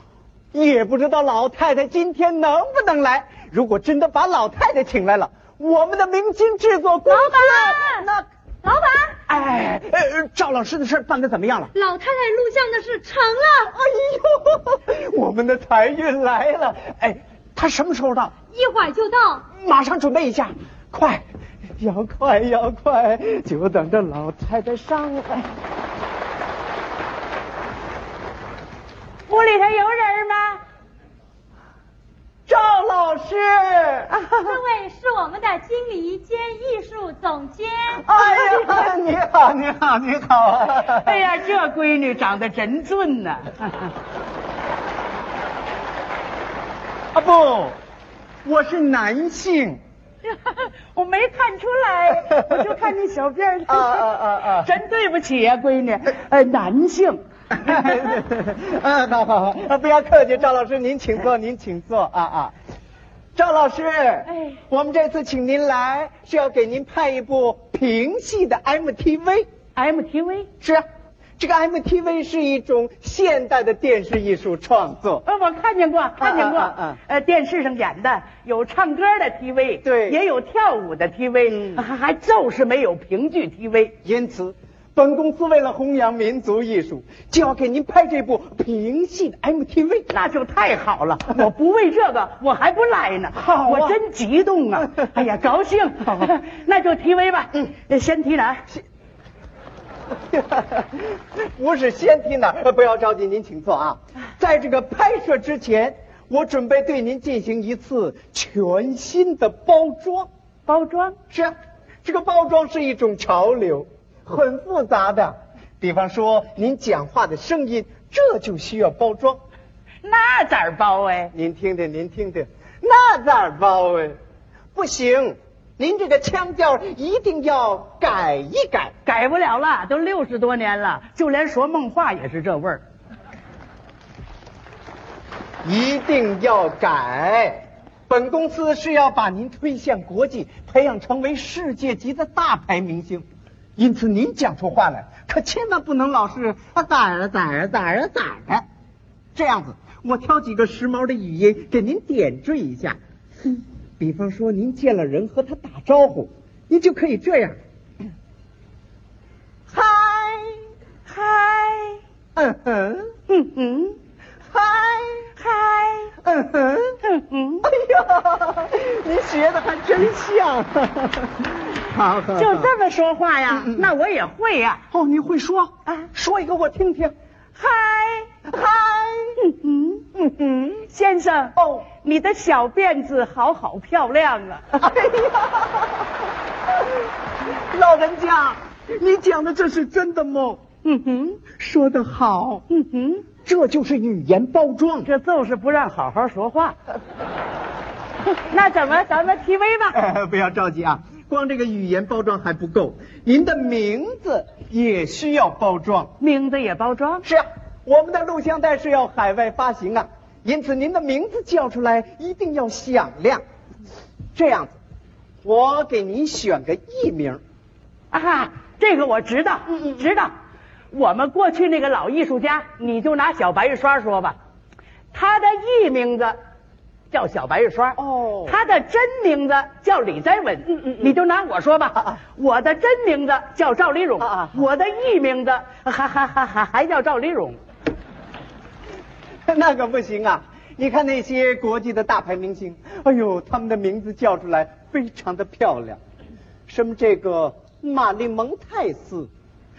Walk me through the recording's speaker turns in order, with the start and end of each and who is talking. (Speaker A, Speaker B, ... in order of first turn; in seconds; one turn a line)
Speaker A: 0.5-8.2
Speaker B: 7.0-8.1
Speaker B: 8.6-9.2
Speaker A: 9.3-11.7
Speaker B: 11.7-13.7
Speaker A: 13.7-18.3
Speaker B: 18.5-19.4
Speaker A: 19.5-21.2
Speaker A: 21.8-25.5
Speaker C: 29.3-30.6
Speaker A: 32.5-34.6
Speaker B: 34.4-38.0
Speaker A: 38.0-41.3
Speaker C: 38.1-38.9
Speaker C: 40.8-43.9
Speaker A: 47.1-47.8
Speaker A: 48.4-49.8
Speaker C: 50.2-58.0
Speaker A: 53.7-54.7
Speaker A: 57.5-62.5
Speaker A: 63.3-69.5
Speaker C: 64.3-64.6
Speaker C: 69.7-70.5
Speaker A: 71.4-75.2
Speaker C: 75.2-83.9
Speaker A: 76.2-77.0
Speaker A: 79.8-80.2
Speaker A: 81.5-81.8
Speaker A: 84.0-90.2
Speaker C: 90.1-98.6
Speaker A: 93.3-94.0
Speaker A: 94.8-95.2
Speaker A: 100.3-110.3
Speaker C: 110.7-111.2
Speaker A: 111.3-119.4
Speaker C: 120.0-121.3
Speaker A: 121.3-124.2
Speaker A: 124.7-128.9
Speaker C: 129.0-132.8
Speaker A: 135.6-143.2
Speaker A: 143.8-148.7
Speaker A: 149.3-153.0
Speaker A: 154.0-157.6
Speaker A: 159.7-160.6
Speaker C: 161.1-162.0
Speaker A: 162.3-163.1
Speaker C: 163.3-164.0
Speaker A: 164.5-165.3
Speaker C: 165.4-166.1
Speaker A: 166.2-167.0
Speaker C: 167.0-167.7
Speaker A: 167.6-172.7
Speaker C: 172.3-174.8
Speaker A: 173.5-173.8
Speaker A: 174.9-177.1
Speaker C: 177.6-178.3
Speaker A: 178.4-179.4
Speaker C: 179.4-180.1
Speaker A: 180.1-180.8
Speaker C: 180.9-184.7
Speaker A: 181.6-181.9
Speaker A: 184.7-186.1
Speaker A: 186.7-187.1
Speaker A: 187.7-190.6
Speaker C: 190.8-191.4
Speaker A: 191.5-192.6
Speaker C: 192.7-193.3
Speaker A: 193.4-195.1
Speaker C: 195.0-196.8
Speaker C: 198.3-200.0
Speaker A: 199.9-206.1
Speaker C: 206.2-207.2
Speaker A: 207.2-213.4
Speaker A: 214.3-214.8
Speaker A: 215.4-217.4
Speaker C: 218.1-220.3
Speaker C: 220.9-224.4
Speaker C: 225.1-226.4
Speaker C: 227.1-237.6
Speaker A: 228.0-228.6
Speaker A: 234.2-234.6
Speaker A: 239.5-246.0
Speaker A: 246.7-249.3